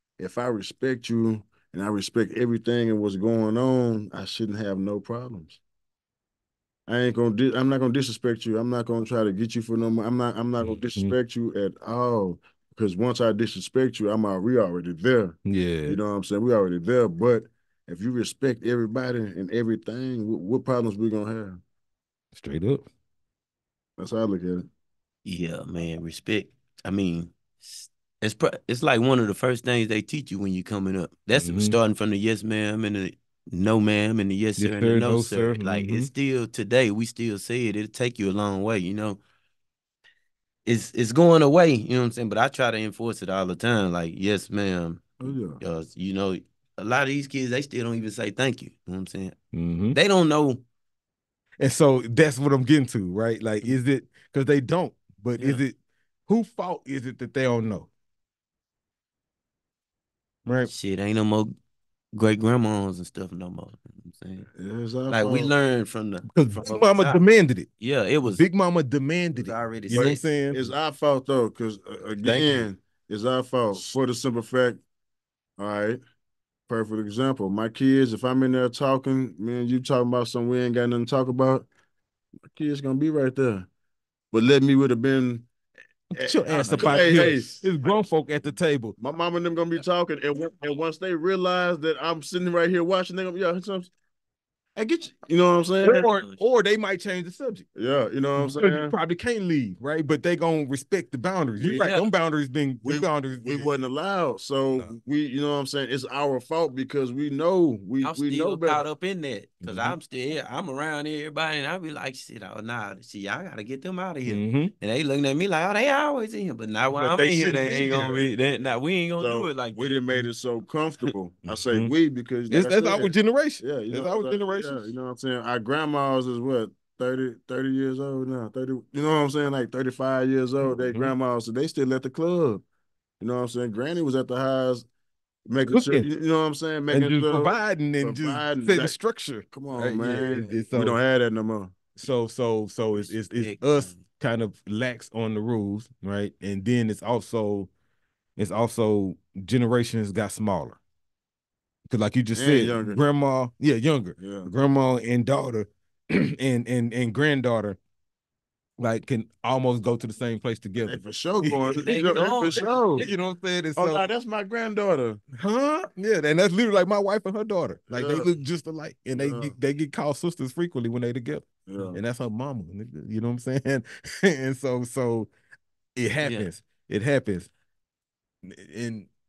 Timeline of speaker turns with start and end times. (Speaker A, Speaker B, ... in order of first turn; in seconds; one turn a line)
Speaker A: 0.2-5.6
Speaker A: 6.9-21.6
Speaker B: 15.4-16.0
Speaker B: 22.4-22.9
Speaker A: 24.0-24.7
Speaker C: 25.2-39.2
Speaker B: 31.3-31.8
Speaker B: 34.6-36.1
Speaker C: 40.7-49.4
Speaker A: 45.2-45.6
Speaker B: 49.5-50.0
Speaker C: 49.9-50.6
Speaker B: 51.6-55.8
Speaker B: 56.3-57.9
Speaker C: 60.6-61.5
Speaker C: 62.1-64.5
Speaker A: 64.5-65.5
Speaker C: 65.1-67.2
Speaker B: 66.3-67.7
Speaker C: 67.8-68.4
Speaker B: 68.3-70.6
Speaker C: 69.3-70.2
Speaker A: 69.9-74.8
Speaker B: 72.2-72.6
Speaker A: 75.6-76.0
Speaker A: 76.7-81.7
Speaker A: 82.5-83.7
Speaker A: 84.3-85.5
Speaker A: 86.1-87.7
Speaker B: 86.1-89.0
Speaker C: 86.5-87.4
Speaker A: 89.0-93.9
Speaker A: 94.8-96.1
Speaker B: 95.8-97.7
Speaker C: 95.8-96.4
Speaker A: 97.8-99.0
Speaker B: 98.4-103.7
Speaker A: 101.6-101.9
Speaker C: 101.6-102.1
Speaker A: 102.8-108.8
Speaker C: 108.0-120.0
Speaker B: 109.6-110.0
Speaker B: 114.3-114.7
Speaker B: 117.0-118.3
Speaker A: 117.7-118.3
Speaker A: 119.2-132.6
Speaker B: 121.5-121.9
Speaker B: 122.5-124.8
Speaker B: 130.8-131.1
Speaker A: 133.2-134.9
Speaker A: 135.5-138.9
Speaker B: 135.7-136.1
Speaker B: 136.9-141.0
Speaker A: 139.5-141.8
Speaker B: 142.0-147.7
Speaker C: 143.4-144.0
Speaker B: 148.4-150.8
Speaker B: 151.9-157.8
Speaker A: 152.3-153.0
Speaker A: 154.2-154.5
Speaker B: 158.8-161.8
Speaker A: 160.8-163.1
Speaker C: 161.8-163.1
Speaker B: 162.6-164.0
Speaker A: 163.8-165.2
Speaker B: 165.3-175.3
Speaker A: 167.9-168.3
Speaker A: 169.1-169.5
Speaker A: 171.7-172.0
Speaker B: 176.0-177.5
Speaker C: 176.2-176.5
Speaker B: 178.4-179.1